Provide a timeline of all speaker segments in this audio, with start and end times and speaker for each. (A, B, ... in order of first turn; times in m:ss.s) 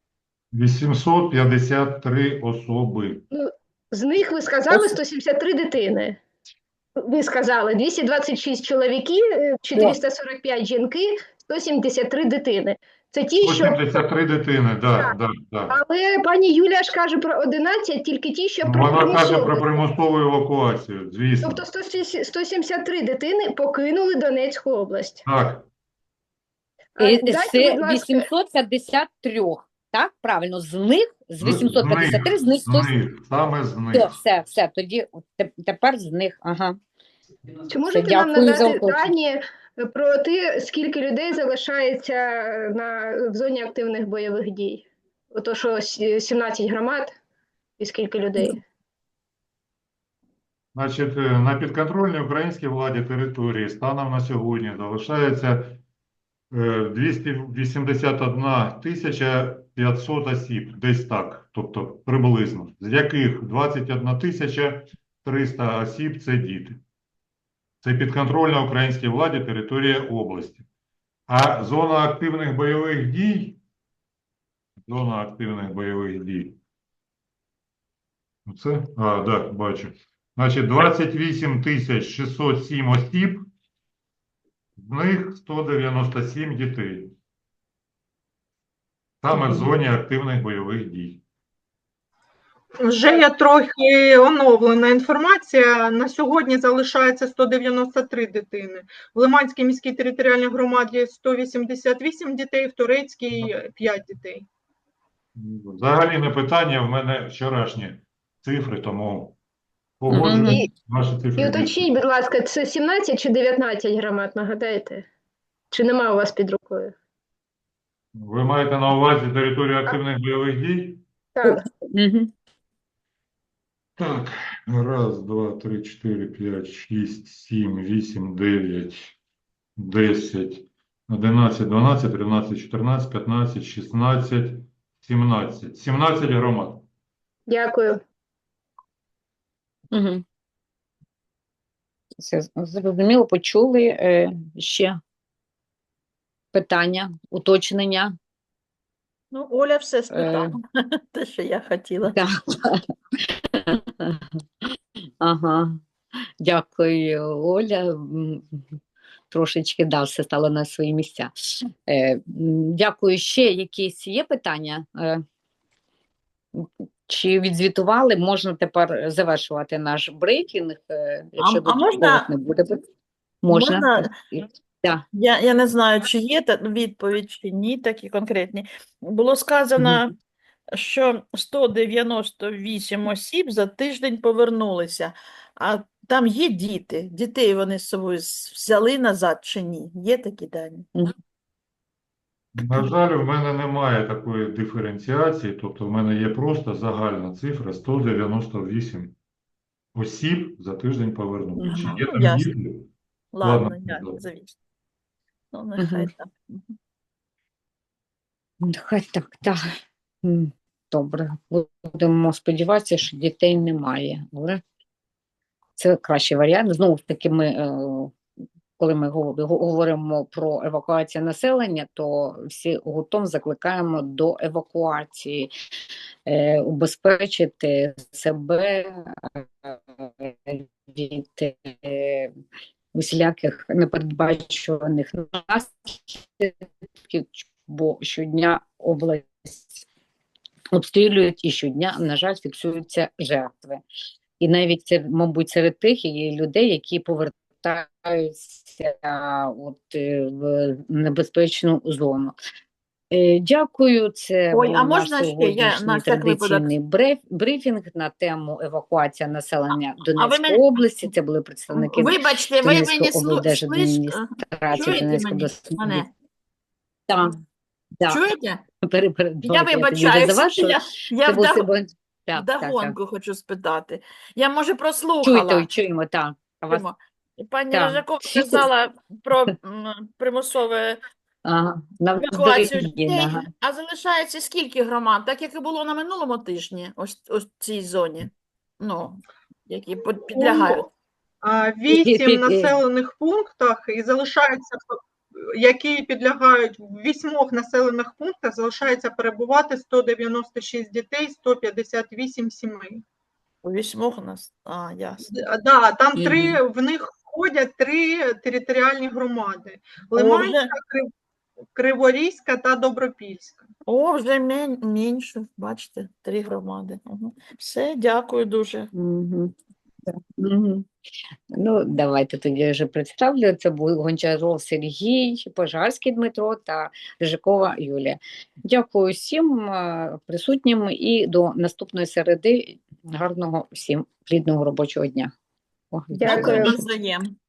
0:00.5-0:03.2 A
0:03.3-0:06.2 B
0:04.7-0:05.0 C
0:07.0-0:14.0 B
0:13.4-0:15.8 A
0:15.7-0:19.8 B
0:18.6-0:21.6 A
0:21.4-0:25.2 B
0:25.2-0:25.7 A
0:27.0-0:28.2 B
0:27.0-0:32.9 C
0:31.4-0:34.2 A
0:33.9-0:36.8 C
0:37.7-0:47.1 B
0:37.8-0:39.1 C
0:47.8-0:48.6 B
0:50.7-0:55.8 A
0:56.5-1:06.8 A
1:07.8-1:10.6 A
1:11.3-1:13.6 A
1:14.8-1:16.6 A
1:18.4-1:23.5 A
1:24.8-1:27.2 A
1:29.2-1:31.2 A
1:32.8-1:44.4 D
1:45.3-1:49.4 A
1:50.0-1:51.8 A
1:50.1-1:50.6 C
1:50.3-1:50.7 B
1:51.4-1:55.0 B
1:55.7-1:56.9 B
1:58.1-2:01.0 A
2:01.3-2:01.7 B
2:01.4-2:02.3 C
2:04.0-2:09.2 A
2:09.8-2:16.8 A
2:17.5-2:18.0 B
2:19.9-2:20.2 C
2:22.2-2:25.0 C
2:26.5-2:28.1 C
2:29.3-2:32.2 E
2:30.1-2:30.5 C
2:32.1-2:34.2 C
2:35.2-2:35.8 C
2:36.4-2:38.6 C
2:39.3-2:45.2 C
2:46.5-2:52.8 C
2:51.4-2:52.3 E
2:53.4-2:55.0 C
2:53.5-2:54.1 E
2:55.1-3:00.1 E
3:00.7-3:10.9 E
3:12.6-3:19.2 A
3:19.9-3:22.9 A
3:21.6-3:22.5 E
3:21.6-3:21.9 C
3:23.3-3:24.5 E
3:23.4-3:24.2 A
3:25.5-3:26.7 E
3:25.8-3:26.1 C
3:28.6-3:29.6 C
3:30.2-3:34.6 C
3:35.8-3:38.1 C
3:38.8-3:45.5 C
3:46.2-3:52.3 C
3:52.9-3:56.5 C
3:57.0-3:59.8 C
4:00.7-4:03.8 C
4:04.4-4:12.4 C
4:13.1-4:26.0 C
4:14.5-4:16.7 E
4:20.1-4:21.1 E
4:21.7-4:26.1 E
4:28.1-4:28.6 E
4:28.8-4:33.0 C
4:29.4-4:31.6 E
4:32.3-4:35.7 E
4:35.2-4:36.8 C
4:36.7-4:41.0 E
4:37.7-4:38.7 C
4:41.4-4:43.4 C
4:42.2-4:50.9 E
4:50.3-4:50.8 D
4:51.4-5:03.0 D
4:51.9-4:52.8 C
5:03.6-5:05.3 E
5:05.3-5:11.1 D
5:06.2-5:06.6 C
5:10.1-5:10.7 E
5:11.7-5:13.7 D
5:13.8-5:18.9 E
5:18.9-5:19.5 C
5:20.1-5:20.8 C
5:21.5-5:35.3 C
5:35.9-5:36.8 C
5:36.2-5:36.8 B
5:36.2-5:37.4 E